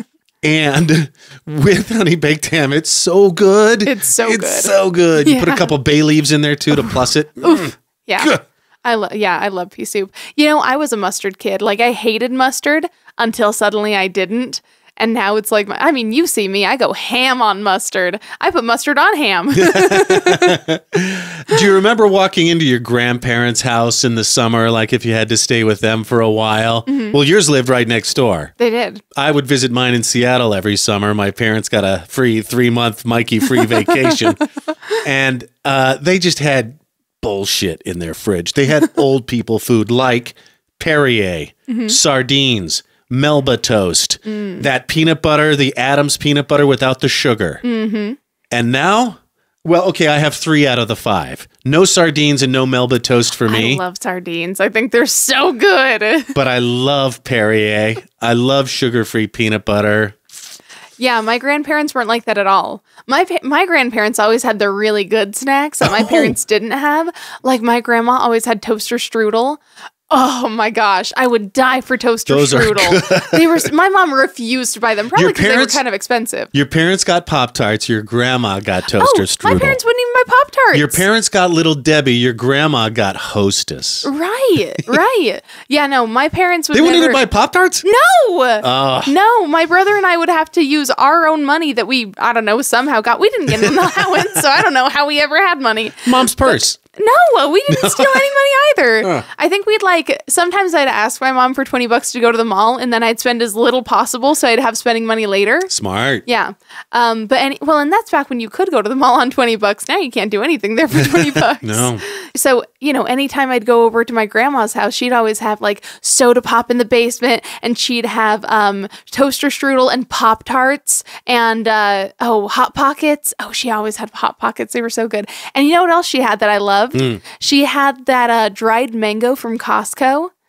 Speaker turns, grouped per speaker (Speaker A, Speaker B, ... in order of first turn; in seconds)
Speaker A: 0.4-8.4, 19.5-28.5, 29.1-34.5, 35.0-47.6, 48.5-53.8, 56.3-60.2, 65.8-66.4, 72.3-73.7, 75.1-75.8, 76.5-79.8, 80.7-84.1, 86.7-87.8, 88.6-89.1, 93.7-94.2, 96.0-96.8, 97.7-98.3, 105.7-106.2, 111.0-112.0, 126.9-127.2
Speaker B: 3.8-5.7, 7.4-20.5, 26.9-27.1, 28.6-29.0, 41.7-42.0, 44.3-44.6, 47.6-48.2, 53.5-56.3, 61.0-76.5, 78.9-81.0, 84.0-87.2, 87.8-105.7, 106.2-130.3